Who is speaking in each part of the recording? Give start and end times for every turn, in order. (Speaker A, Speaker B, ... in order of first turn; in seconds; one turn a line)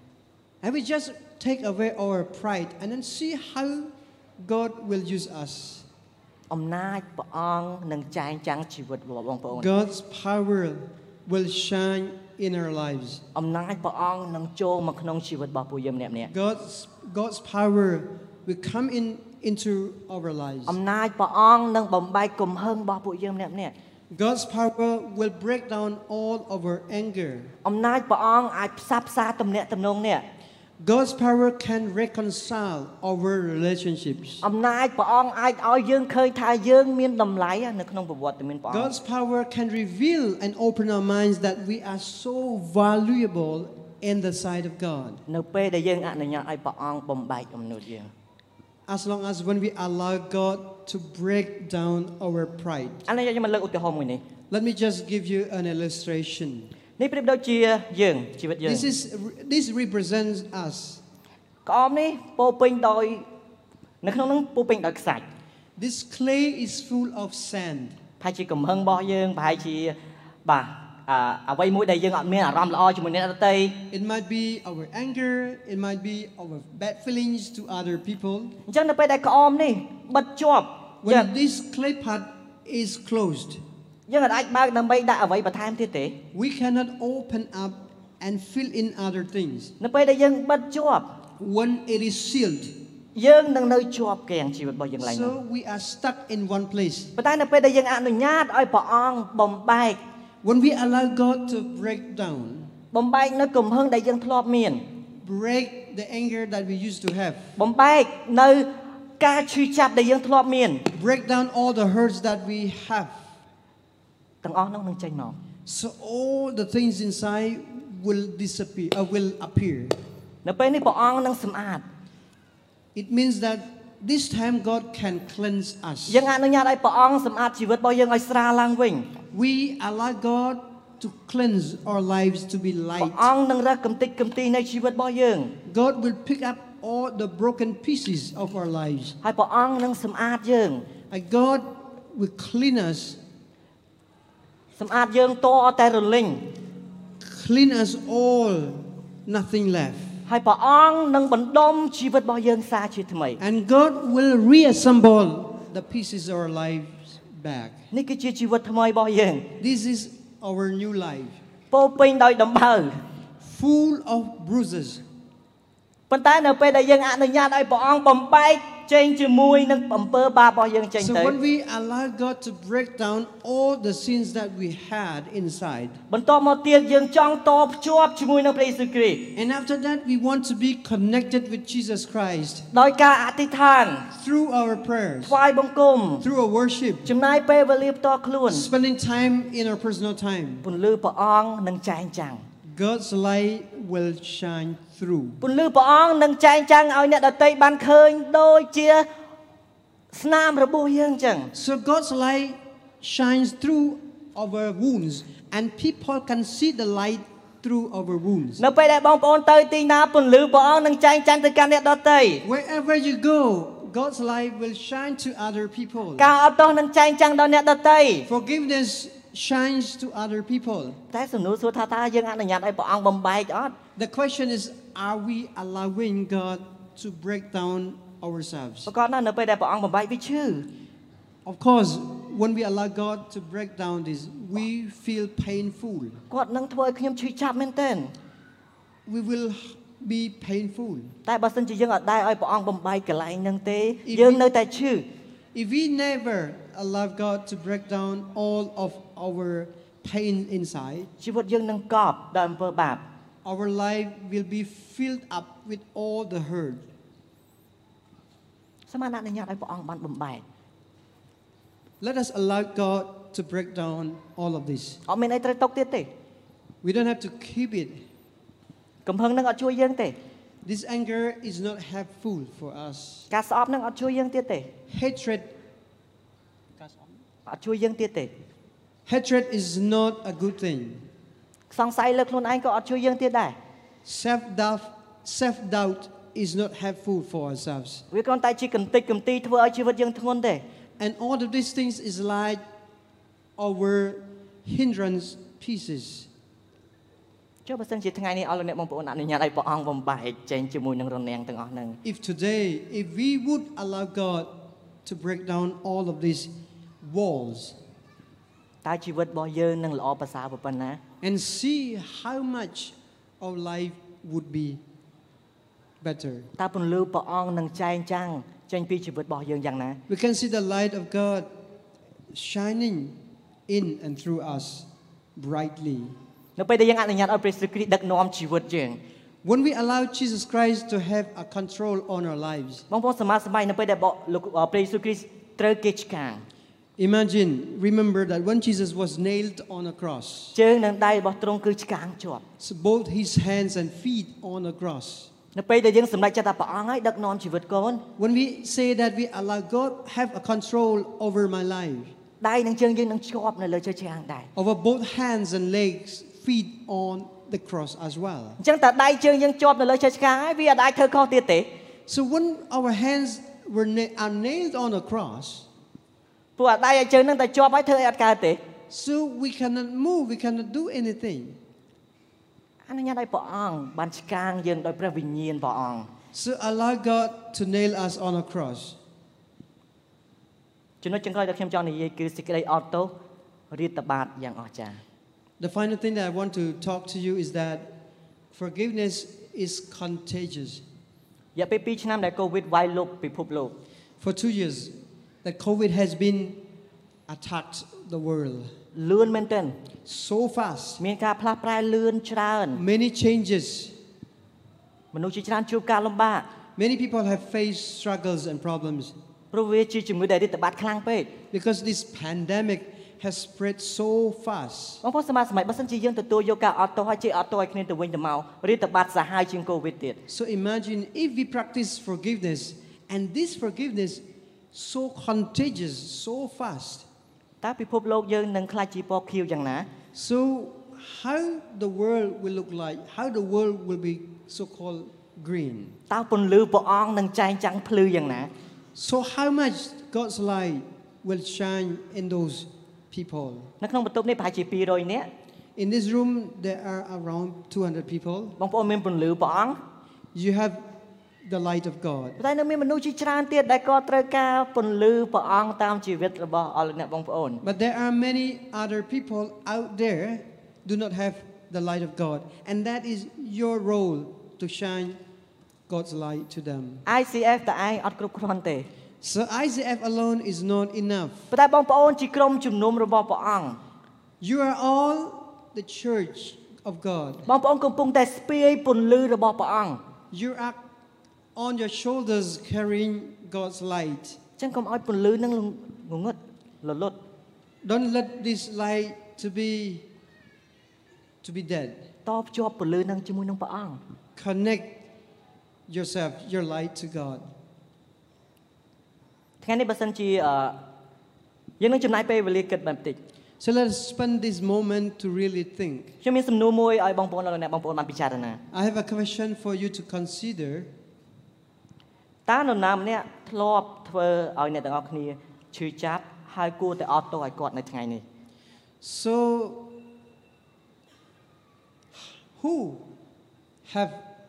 Speaker A: 0.6-5.8
Speaker B: 6.5-9.7
Speaker A: 9.5-13.2
Speaker B: 13.3-16.3
Speaker A: 16.3-20.8
Speaker B: 20.7-23.7
Speaker A: 24.1-27.5
Speaker B: 27.6-30.2
Speaker A: 30.8-34.4
Speaker B: 34.4-38.9
Speaker A: 38.7-45.2
Speaker B: 45.3-48.1
Speaker A: 48.9-53.0
Speaker B: 53.0-54.2
Speaker A: 54.5-56.7
Speaker B: 57.0-58.9
Speaker A: 58.6-61.0
Speaker B: 61.6-63.2
Speaker B: 64.0-65.2
Speaker A: 65.8-68.0
Speaker B: 68.2-73.8
Speaker A: 73.9-78.5
Speaker B: 78.7-81.3
Speaker A: 81.0-83.6
Speaker B: 84.1-86.2
Speaker A: 86.3-89.7
Speaker B: 89.8-91.1
Speaker A: 91.4-92.8
Speaker B: 93.1-95.3
Speaker A: 95.0-97.1
Speaker B: 97.2-100.0
Speaker A: 100.4-102.7
Speaker B: 102.9-104.8
Speaker A: 105.2-107.5
Speaker B: 107.6-110.8
Speaker A: 110.9-113.3
Speaker B: 114.4-115.4
Speaker A: 115.7-120.0
Speaker B: 120.4-121.8
Speaker A: 122.9-126.3
Speaker B: 126.1-129.1
Speaker A: 129.3-133.3
Speaker B: 133.0-135.6
Speaker A: 135.6-139.2
Speaker B: 139.2-140.8
Speaker A: 141.1-143.2
Speaker B: 144.8-146.5
Speaker A: 147.2-150.2
Speaker B: 150.3-153.4
Speaker A: 153.4-157.8
Speaker B: 157.9-159.5
Speaker A: 159.6-161.4
Speaker B: 161.7-162.9
Speaker A: 163.4-165.0
Speaker B: 166.1-171.3
Speaker A: 171.0-176.0
Speaker B: 176.1-179.3
Speaker A: 179.3-182.7
Speaker B: 182.7-184.1
Speaker A: 184.1-185.4
Speaker B: 185.2-186.2
Speaker A: 186.2-187.1
Speaker B: 187.0-188.7
Speaker A: 188.5-190.6
Speaker B: 190.6-192.4
Speaker A: 192.6-195.4
Speaker B: 195.4-199.1
Speaker B: 200.1-201.5
Speaker A: 201.5-208.6
Speaker B: 208.6-212.4
Speaker A: 212.4-216.3
Speaker B: 216.2-218.3
Speaker A: 218.3-221.0
Speaker B: 221.1-223.8
Speaker A: 223.9-228.9
Speaker B: 228.9-230.7
Speaker A: 231.4-236.2
Speaker B: 236.3-238.1
Speaker A: 239.1-241.1
Speaker B: 241.2-245.1
Speaker A: 244.1-244.4
Speaker A: 245.5-251.1
Speaker B: 251.2-253.0
Speaker A: 253.4-256.8
Speaker B: 258.9-260.4
Speaker A: 262.0-265.0
Speaker B: 265.1-266.1
Speaker A: 266.8-268.0
Speaker B: 269.1-270.2
Speaker A: 270.6-273.3
Speaker B: 273.3-274.7
Speaker A: 274.9-275.5
Speaker B: 277.4-278.3
Speaker A: 279.1-281.1
Speaker B: 281.7-283.6
Speaker A: 284.0-288.0
Speaker B: 288.1-290.6
Speaker A: 291.0-292.6
Speaker A: 293.6-296.3
Speaker B: 297.6-302.0
Speaker A: 302.0-307.8
Speaker B: 308.8-311.0
Speaker A: 311.2-314.8
Speaker A: 316.0-316.5
Speaker B: 316.6-320.0
Speaker A: 320.1-321.5
Speaker A: 322.3-326.1
Speaker B: 326.6-329.0
Speaker A: 329.4-332.8
Speaker B: 332.9-336.4
Speaker A: 337.0-340.6
Speaker B: 340.5-342.4
Speaker A: 342.6-345.3
Speaker B: 345.5-348.0
Speaker A: 348.2-352.1
Speaker B: 352.4-354.5
Speaker A: 354.6-358.6
Speaker B: 358.6-361.7
Speaker A: 362.1-365.7
Speaker B: 366.6-368.6
Speaker A: 368.9-371.6
Speaker B: 372.9-376.1
Speaker A: 376.3-379.0
Speaker B: 381.0-383.1
Speaker B: 383.7-385.0
Speaker A: 385.6-387.9
Speaker A: 388.5-390.8
Speaker B: 391.5-393.8
Speaker A: 394.2-396.6
Speaker A: 397.3-398.7
Speaker B: 398.9-399.8
Speaker A: 400.1-401.0
Speaker B: 401.0-402.8
Speaker A: 402.7-403.9
Speaker B: 405.1-406.5
Speaker A: 406.8-409.1
Speaker B: 409.5-411.3
Speaker A: 411.5-415.0
Speaker B: 415.0-420.2
Speaker A: 420.3-427.1
Speaker B: 427.6-429.9
Speaker A: 430.1-436.0
Speaker B: 436.1-438.5
Speaker A: 438.9-443.7
Speaker B: 443.8-445.3
Speaker A: 445.8-448.6
Speaker B: 448.6-449.8
Speaker A: 450.3-450.8
Speaker A: 451.4-452.4
Speaker B: 452.4-457.6
Speaker A: 457.6-465.2
Speaker A: 465.9-467.0
Speaker B: 467.1-468.9
Speaker A: 469.2-471.5
Speaker B: 471.5-473.8
Speaker A: 474.4-477.5
Speaker B: 477.4-480.0
Speaker A: 480.3-480.8
Speaker A: 481.5-484.4
Speaker B: 484.6-487.2
Speaker A: 487.8-490.1
Speaker A: 491.4-492.1
Speaker B: 492.2-494.0
Speaker A: 494.4-495.0
Speaker A: 495.9-497.4
Speaker B: 499.6-500.8
Speaker B: 501.8-503.2
Speaker A: 503.6-506.1
Speaker B: 506.2-508.6
Speaker A: 508.7-510.9
Speaker B: 512.5-518.2
Speaker A: 519.0-520.0
Speaker A: 522.1-523.1
Speaker A: 523.9-524.2